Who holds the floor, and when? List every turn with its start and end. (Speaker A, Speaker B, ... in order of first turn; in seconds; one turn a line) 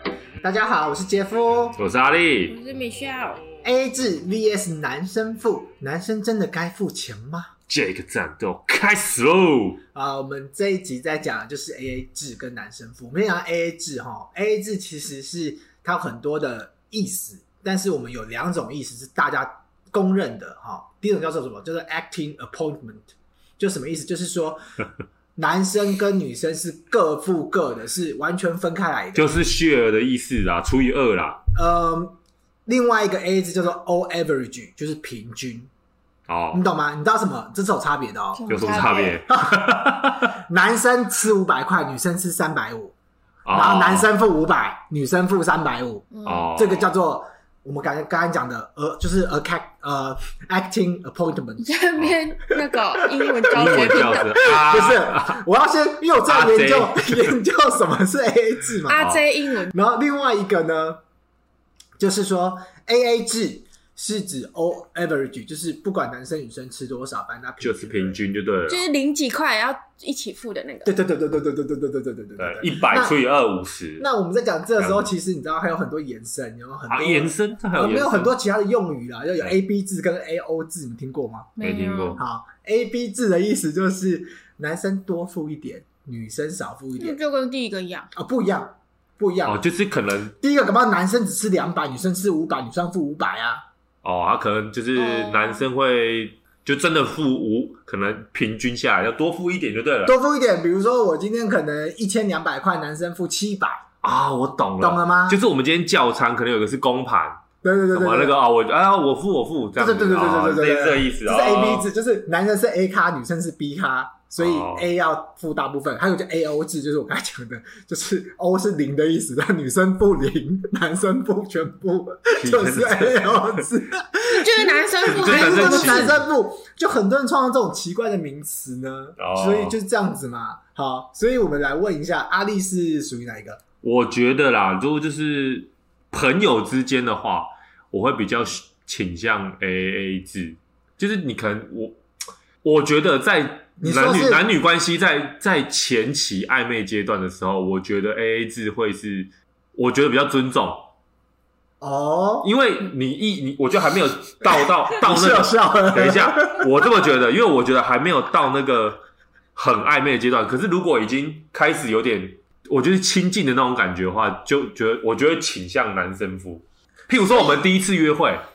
Speaker A: 0.4-1.8
Speaker B: 1.8-2.5
Speaker C: 2.5-3.4
Speaker A: 3.6-7.5
Speaker B: 7.7-9.8
Speaker A: 9.9-24.6
Speaker A: 25.4-29.3
Speaker B: 29.1-31.4
Speaker A: 31.5-35.7
Speaker B: 36.3-36.6
Speaker A: 36.5-42.9
Speaker C: 38.3-39.2
Speaker B: 38.5-40.3
Speaker B: 43.5-44.1
Speaker A: 43.5-51.9
Speaker C: 46.1-46.5
Speaker B: 46.2-46.9
Speaker C: 51.6-54.5
Speaker A: 52.7-61.0
Speaker B: 53.5-55.4
Speaker B: 56.2-57.3
Speaker C: 58.9-59.7
Speaker A: 62.0-68.2
Speaker B: 67.6-68.8
Speaker C: 68.7-70.9
Speaker A: 70.8-73.2
Speaker B: 72.4-74.0
Speaker A: 74.0-81.5
Speaker B: 74.8-75.1
Speaker B: 76.9-78.3
Speaker C: 81.5-82.2
Speaker B: 81.6-82.2
Speaker A: 82.2-87.2
Speaker C: 87.0-88.1
Speaker A: 88.1-89.6
Speaker B: 89.4-90.3
Speaker A: 90.4-93.6
Speaker B: 94.0-100.1
Speaker C: 94.9-95.6
Speaker A: 100.0-103.9
Speaker B: 104.0-107.4
Speaker A: 104.8-105.4
Speaker A: 107.6-108.3
Speaker B: 107.9-111.9
Speaker A: 109.8-133.6
Speaker B: 114.4-114.9
Speaker B: 122.4-123.6
Speaker C: 124.3-126.2
Speaker B: 125.1-126.2
Speaker B: 129.2-129.8
Speaker B: 133.8-142.0
Speaker B: 142.6-150.9
Speaker A: 143.8-144.4
Speaker A: 151.8-152.5
Speaker B: 152.4-159.0
Speaker A: 154.9-156.7
Speaker B: 159.6-168.4
Speaker A: 167.1-167.6